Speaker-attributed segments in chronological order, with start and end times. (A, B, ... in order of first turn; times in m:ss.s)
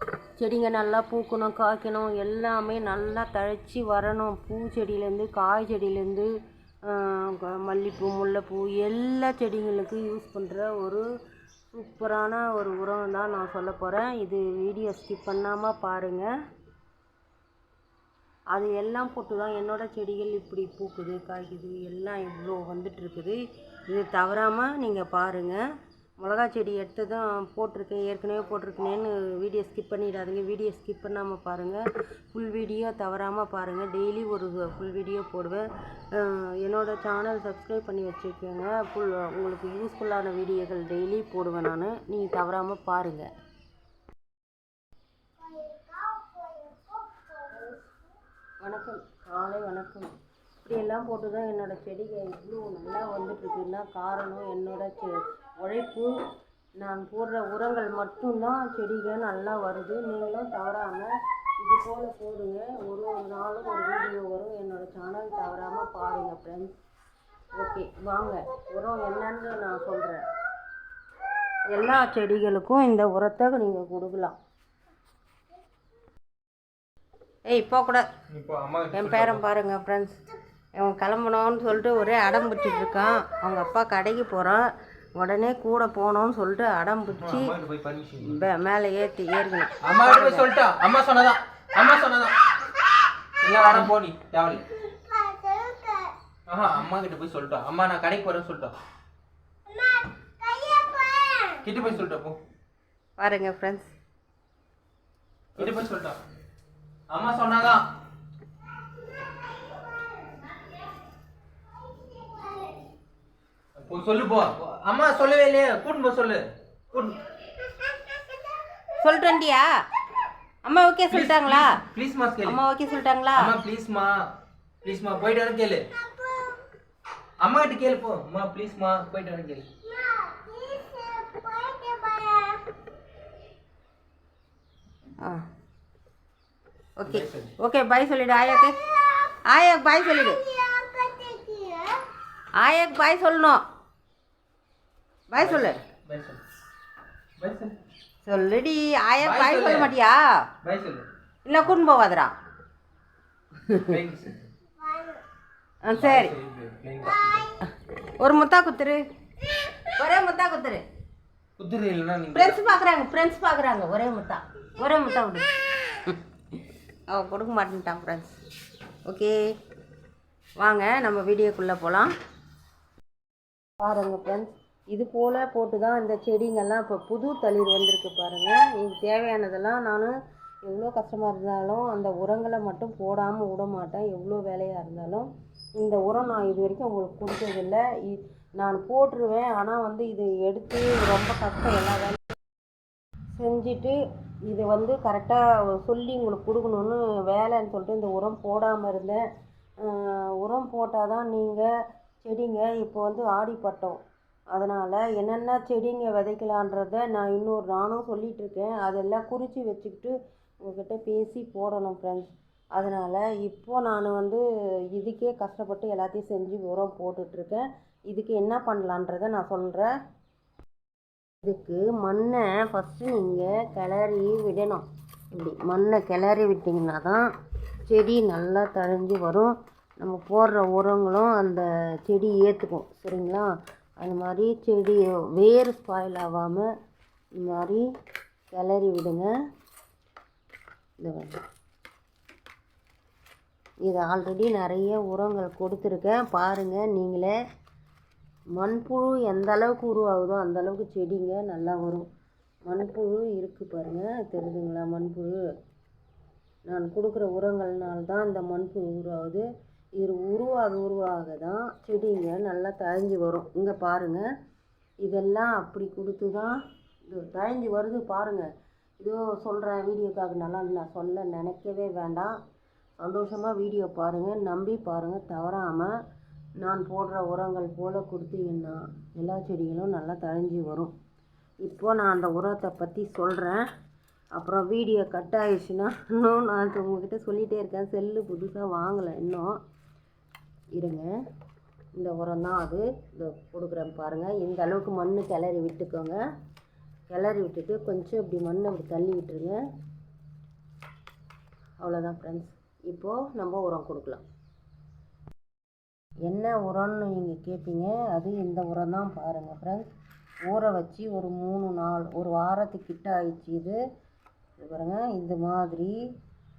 0:00.4-0:06.3 A
0:06.9-0:11.0 A
0:11.7-0:16.3 A
0:18.5-0:25.6 A
0:26.2-0:31.8 A
0:32.3-0:43.3 A
0:46.4-0:46.7 A
0:47.3-0:47.8 A
0:48.6-0:50.1 A
0:50.6-0:56.1 A
0:56.8-1:06.7 A
1:07.5-1:10.2 A
1:11.7-1:14.3 A
1:17.5-1:18.1 A
1:18.3-1:19.4 B
1:18.9-1:20.2 A
1:20.8-1:27.5 A
1:27.1-1:28.4 B
1:28.2-1:30.5 A
1:29.8-1:32.5 B
1:33.4-1:34.7 B
1:35.5-1:36.0 A
1:36.5-1:38.7 B
1:40.8-1:41.3 A
1:41.6-1:42.4 B
1:43.2-1:43.9 A
1:45.6-1:46.2 B
1:47.1-1:47.8 B
1:53.8-1:57.2 B
1:58.9-1:59.8 A
2:00.6-2:01.8 A
2:01.1-2:02.6 B
2:02.4-2:03.5 A
2:03.4-2:04.2 B
2:04.8-2:05.8 B
2:07.4-2:09.7 B
2:10.6-2:12.6 A
2:17.0-2:22.0 A
2:17.0-2:17.5 B
2:22.5-2:23.6 A
2:25.3-2:25.8 A
2:25.4-2:26.4 B
2:27.4-2:27.7 B
2:28.2-2:30.4 A
2:29.2-2:29.9 B
2:30.6-2:31.0 B
2:31.4-2:32.3 A
2:33.6-2:34.0 A
2:33.8-2:34.5 B
2:35.8-2:36.3 A
2:35.9-2:37.5 B
2:38.2-2:39.1 A
2:39.9-2:40.8 A
2:41.6-2:42.6 B
2:42.3-2:45.5 A
2:47.1-2:48.3 A
2:49.0-2:49.4 A
2:50.6-2:52.1 A
2:53.8-3:00.1 A
3:00.6-3:12.3 A
3:13.4-3:19.2 A
3:19.8-3:21.7 A
3:22.2-3:24.0 A
3:24.5-3:34.4 A
3:34.9-3:39.9 A
3:41.4-3:47.2 A
3:47.9-3:56.7 A
3:57.4-3:57.8 A
3:58.5-3:59.3 A
4:01.0-4:01.3 A
4:03.8-4:07.3 A
4:08.6-4:12.1 A
4:12.7-4:15.4 A
4:16.7-4:24.2 A
4:25.0-4:28.5 A
4:29.0-4:32.4 A
4:33.0-4:35.9 A
4:36.6-4:40.9 A
4:41.6-4:43.6 A
4:44.3-4:49.6 A
4:50.8-4:51.1 A
4:51.9-4:56.2 A
4:57.1-4:59.6 A
5:01.8-5:04.2 A
5:06.2-5:09.9 A
5:10.4-5:13.8 A
5:14.6-5:16.0 A